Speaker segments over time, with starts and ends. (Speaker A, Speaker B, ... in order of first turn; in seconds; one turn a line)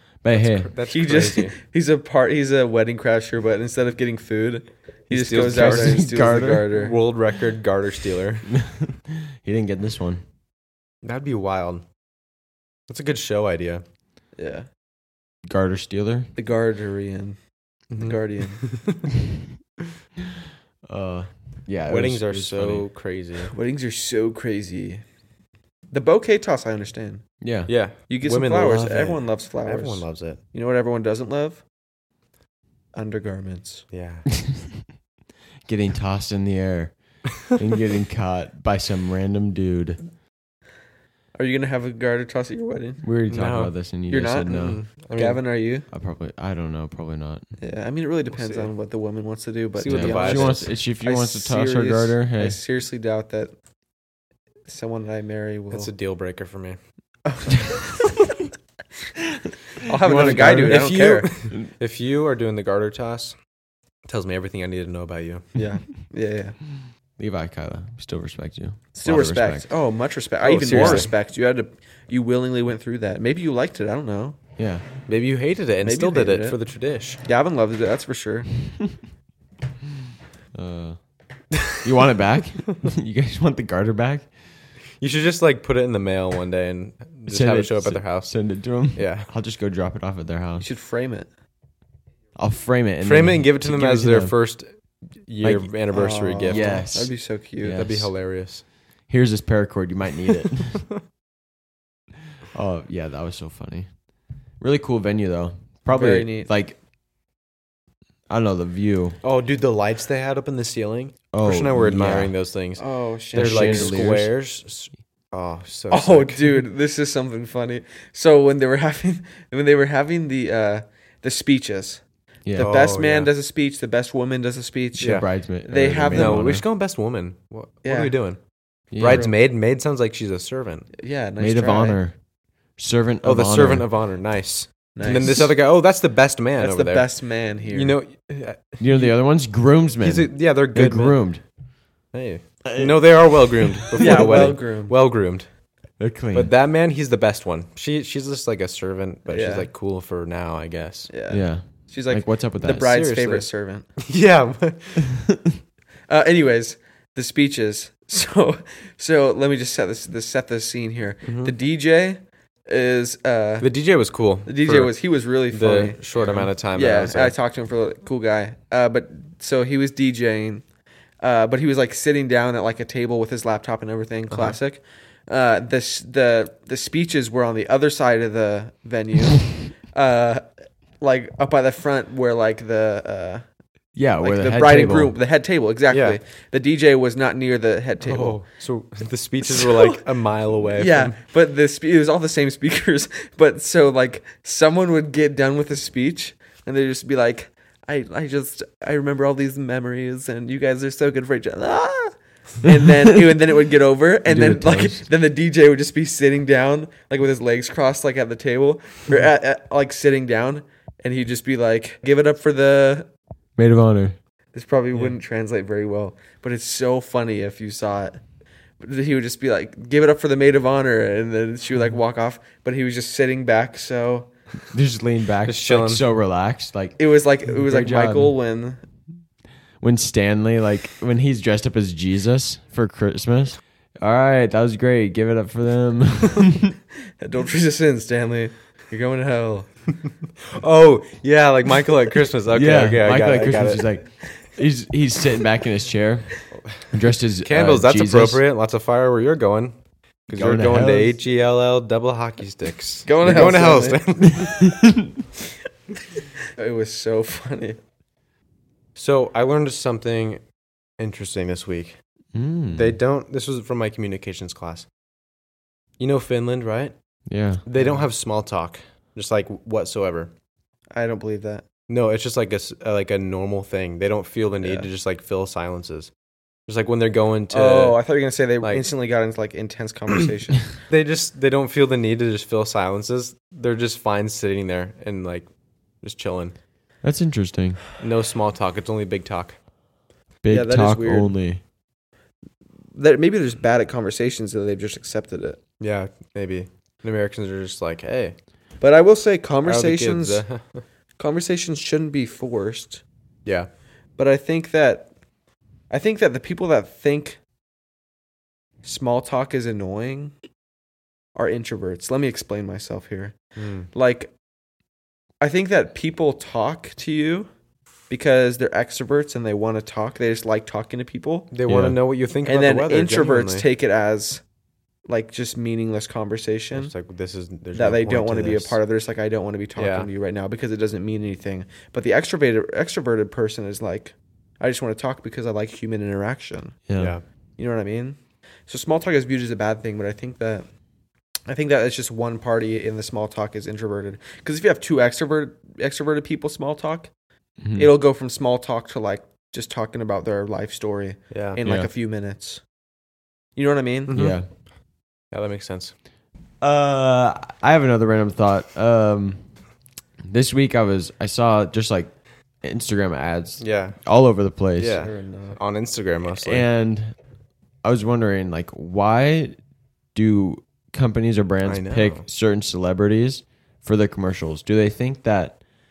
Speaker A: 0.2-0.7
Speaker B: 0.3-1.5
Speaker C: 0.9-7.0
Speaker B: 5.1-6.1
Speaker A: 5.4-6.7
Speaker B: 6.7-8.5
Speaker A: 8.5-10.2
Speaker B: 11.0-11.8
Speaker B: 12.9-13.8
Speaker C: 14.4-14.7
Speaker A: 15.5-16.3
Speaker C: 16.4-17.4
Speaker B: 17.9-19.0
Speaker C: 18.0-18.6
Speaker A: 20.9-22.9
Speaker B: 21.9-23.5
Speaker C: 23.5-25.0
Speaker C: 25.9-27.2
Speaker A: 27.4-27.7
Speaker B: 27.7-30.4
Speaker C: 28.1-31.6
Speaker C: 32.9-33.9
Speaker B: 33.9-34.3
Speaker A: 34.5-34.8
Speaker A: 35.7-40.0
Speaker C: 41.4-43.0
Speaker A: 43.0-44.8
Speaker B: 43.3-43.7
Speaker C: 44.1-45.9
Speaker B: 44.5-45.4
Speaker A: 45.9-47.5
Speaker C: 47.6-53.5
Speaker B: 48.3-48.7
Speaker B: 49.8-50.7
Speaker A: 49.9-52.6
Speaker C: 54.7-55.9
Speaker B: 55.7-56.8
Speaker C: 57.3-58.1
Speaker C: 59.8-61.3
Speaker A: 60.0-60.9
Speaker B: 60.2-63.4
Speaker B: 64.1-65.5
Speaker C: 65.5-66.6
Speaker A: 67.2-69.7
Speaker C: 69.0-74.4
Speaker B: 70.4-71.1
Speaker A: 70.7-71.1
Speaker A: 74.6-74.8
Speaker B: 75.1-77.2
Speaker C: 75.8-76.6
Speaker C: 77.2-78.5
Speaker A: 80.5-81.0
Speaker A: 81.7-84.3
Speaker B: 85.0-88.4
Speaker A: 87.3-90.7
Speaker B: 89.0-89.3
Speaker C: 90.6-91.3
Speaker A: 92.4-94.3
Speaker B: 93.0-94.7
Speaker B: 95.2-96.8
Speaker A: 95.4-95.7
Speaker C: 95.9-97.8
Speaker A: 96.5-98.1
Speaker B: 97.7-98.6
Speaker A: 99.1-100.9
Speaker A: 102.5-103.9
Speaker A: 104.6-106.8
Speaker C: 105.9-106.5
Speaker A: 108.3-109.2
Speaker B: 109.2-116.6
Speaker A: 111.3-112.3
Speaker C: 112.8-114.1
Speaker A: 113.3-114.3
Speaker C: 115.9-122.0
Speaker A: 122.5-122.7
Speaker C: 122.5-126.5
Speaker B: 122.6-123.3
Speaker B: 125.0-125.3
Speaker A: 125.0-126.7
Speaker B: 126.1-128.4
Speaker C: 127.8-128.2
Speaker A: 128.9-129.3
Speaker B: 129.0-130.9
Speaker C: 129.0-129.3
Speaker C: 131.0-132.0
Speaker A: 131.4-132.2
Speaker A: 132.8-133.9
Speaker B: 133.2-137.1
Speaker C: 134.9-135.5
Speaker C: 136.6-138.0
Speaker B: 137.7-139.2
Speaker A: 138.8-141.4
Speaker B: 140.0-141.2
Speaker B: 142.1-145.5
Speaker A: 142.7-144.4
Speaker C: 143.9-145.0
Speaker A: 146.0-146.5
Speaker B: 146.3-151.1
Speaker C: 149.3-149.7
Speaker C: 151.1-153.9
Speaker A: 151.3-152.9
Speaker B: 152.8-153.5
Speaker B: 154.0-155.2
Speaker C: 156.1-163.7
Speaker B: 161.2-161.5
Speaker B: 163.6-167.3
Speaker C: 164.5-170.7
Speaker C: 171.2-180.5
Speaker B: 174.3-174.6
Speaker C: 181.0-183.5
Speaker A: 184.0-185.1
Speaker C: 184.2-188.4
Speaker B: 185.9-186.2
Speaker B: 188.0-191.1
Speaker C: 189.4-190.0
Speaker C: 190.7-213.1
Speaker A: 204.3-205.1
Speaker A: 213.6-214.2
Speaker C: 214.5-218.2
Speaker C: 218.8-224.3
Speaker A: 224.7-228.3
Speaker B: 225.5-226.0
Speaker C: 227.0-228.8
Speaker A: 229.8-236.8
Speaker C: 237.2-239.7
Speaker B: 240.5-243.9
Speaker A: 242.5-248.4
Speaker B: 247.4-254.7
Speaker A: 250.3-251.1
Speaker C: 253.1-254.2
Speaker A: 254.3-255.1
Speaker C: 256.5-257.8
Speaker B: 259.0-260.4
Speaker B: 261.0-262.0
Speaker A: 262.3-263.0
Speaker B: 262.7-264.9
Speaker B: 266.0-266.9
Speaker A: 267.3-267.6
Speaker B: 267.7-270.3
Speaker C: 267.8-268.1
Speaker C: 270.9-271.6
Speaker B: 271.9-276.1
Speaker C: 274.6-274.9
Speaker B: 276.7-278.0
Speaker C: 277.5-280.7
Speaker B: 278.6-278.9
Speaker B: 280.9-285.5
Speaker B: 286.0-286.6
Speaker A: 287.0-287.8
Speaker B: 288.0-289.6
Speaker A: 290.4-291.6
Speaker C: 290.5-291.3
Speaker C: 292.9-295.6
Speaker B: 295.8-298.4
Speaker C: 298.8-300.4
Speaker B: 299.7-300.8
Speaker C: 301.2-303.0
Speaker C: 304.2-305.1
Speaker C: 305.9-307.4
Speaker C: 308.8-310.3
Speaker C: 311.4-313.4
Speaker B: 313.6-313.9
Speaker C: 313.9-314.3
Speaker C: 315.4-317.5
Speaker C: 318.1-321.5
Speaker B: 321.5-323.7
Speaker A: 321.7-322.0
Speaker C: 322.4-324.4
Speaker C: 325.1-326.9
Speaker B: 326.7-328.8
Speaker C: 327.7-336.8
Speaker B: 329.8-330.1
Speaker A: 336.9-337.2
Speaker C: 337.6-340.7
Speaker C: 341.5-347.1
Speaker A: 347.6-347.9
Speaker C: 347.8-352.6
Speaker B: 351.3-351.6
Speaker A: 351.6-351.9
Speaker C: 353.6-354.1
Speaker B: 354.1-354.5
Speaker A: 354.1-354.5
Speaker B: 355.3-355.9
Speaker A: 356.6-359.5
Speaker A: 360.3-365.0
Speaker B: 363.6-364.0
Speaker B: 364.8-366.7
Speaker C: 364.9-365.6
Speaker A: 366.4-367.1
Speaker A: 367.8-369.6
Speaker A: 370.1-375.6
Speaker B: 371.6-372.3